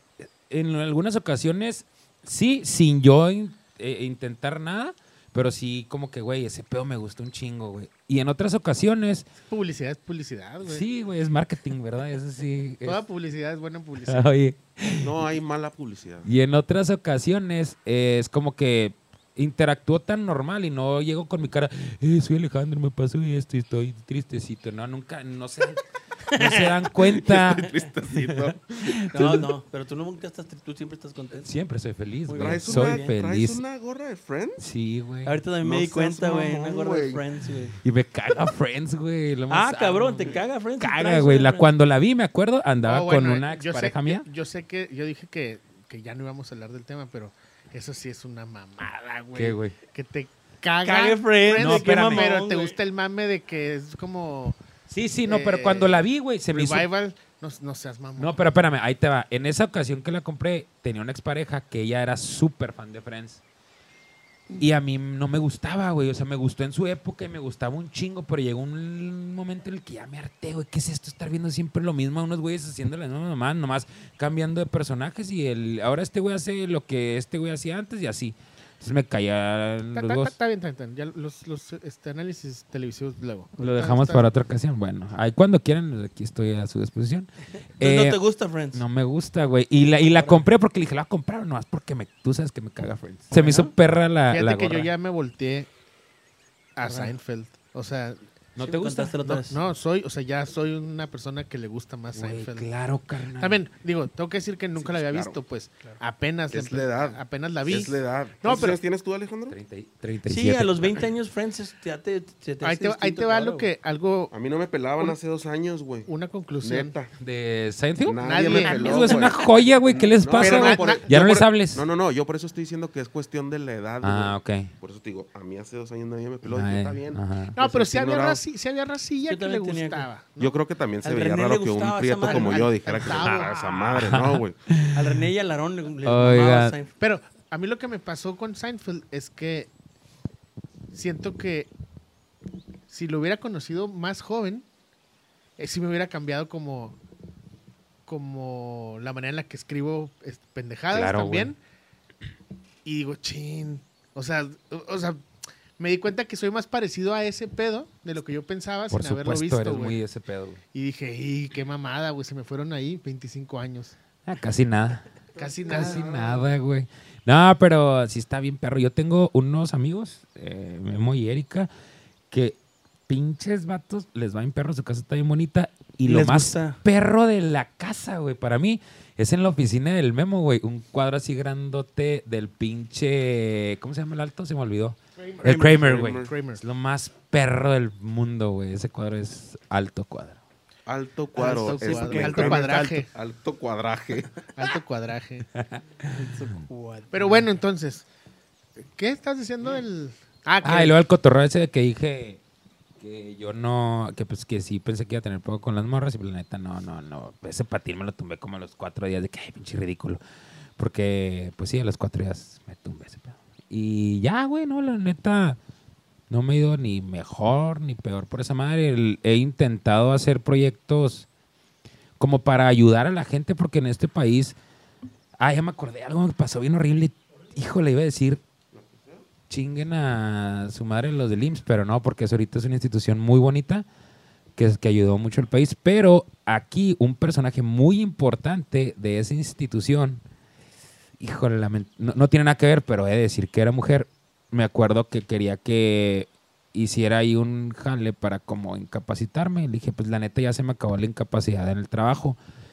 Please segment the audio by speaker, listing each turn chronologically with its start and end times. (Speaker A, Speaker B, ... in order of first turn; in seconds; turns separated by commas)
Speaker A: 0.5-9.3, Speaker B: 9.5-10.8, Speaker A: 10.6-13.0, Speaker B: 12.8-14.3, Speaker A: 14.0-15.1, Speaker C: 15.0-16.3, Speaker A: 16.2-27.7, Speaker D: 26.3-26.8, Speaker C: 27.0-29.0, Speaker A: 28.2-29.5, Speaker D: 29.1-31.5, Speaker A: 31.4-33.6, Speaker D: 32.2-33.1, Speaker C: 32.4-34.6, Speaker A: 34.6-35.4, Speaker D: 35.2-37.8, Speaker C: 35.6-37.2, Speaker A: 37.8-44.2, Speaker D: 39.5-41.7, Speaker B: 42.8-54.6, Speaker A: 49.3-49.8, Speaker D: 50.8-52.8, Speaker A: 51.6-52.3, Speaker A: 54.9-56.9, Speaker B: 55.2-58.4, Speaker A: 58.2-63.4, Speaker A: 64.6-80.3, Speaker B: 79.9-84.3, Speaker A: 83.6-88.2, Speaker D: 87.8-88.8, Speaker A: 88.7-94.9, Speaker D: 90.1-90.5, Speaker D: 93.3-93.7, Speaker B: 94.3-95.7, Speaker B: 96.8-98.2, Speaker D: 96.8-97.1, Speaker A: 98.5-99.2, Speaker D: 98.6-99.6, Speaker B: 99.2-102.7, Speaker A: 102.1-103.6, Speaker B: 103.4-108.8, Speaker C: 104.8-105.4, Speaker C: 106.5-109.6, Speaker A: 109.5-111.1, Speaker D: 110.2-113.7, Speaker B: 112.6-114.3, Speaker C: 114.3-116.1, Speaker B: 116.0-116.9, Speaker C: 116.6-117.1, Speaker A: 117.2-121.8, Speaker C: 118.0-128.4, Speaker B: 118.2-119.3, Speaker B: 120.3-121.4, Speaker A: 124.0-124.7, Speaker A: 126.4-127.6, Speaker B: 127.5-130.6, Speaker D: 129.3-130.1, Speaker C: 130.4-134.6, Speaker D: 131.0-132.7, Speaker B: 132.2-133.9, Speaker A: 133.1-135.0, Speaker D: 134.9-136.9, Speaker A: 136.0-136.8, Speaker B: 137.0-139.7, Speaker B: 140.9-141.7, Speaker B: 142.9-144.7, Speaker B: 145.6-147.0, Speaker B: 148.1-151.6, Speaker A: 150.9-151.5, Speaker B: 152.8-155.2, Speaker B: 155.8-160.0, Speaker A: 158.9-160.6, Speaker B: 160.7-163.9, Speaker A: 164.2-165.1, Speaker B: 165.3-166.5, Speaker D: 165.4-166.0, Speaker A: 165.7-171.7, Speaker A: 172.3-190.4, Speaker D: 176.1-176.8, Speaker B: 185.2-186.6, Speaker C: 185.4-186.3, Speaker C: 190.8-194.5, Speaker D: 191.3-192.8, Speaker B: 191.3-193.1, Speaker B: 194.5-195.5, Speaker D: 196.1-197.5, Speaker B: 197.1-198.0, Speaker B: 198.9-201.0, Speaker A: 200.6-202.4, Speaker A: 203.0-210.2, Speaker A: 210.8-215.6, Speaker A: 216.3-221.3, Speaker A: 222.2-224.6, Speaker A: 225.4-228.4, Speaker C: 228.7-229.2, Speaker A: 229.4-233.8, Speaker A: 234.6-240.2, Speaker A: 241.2-252.4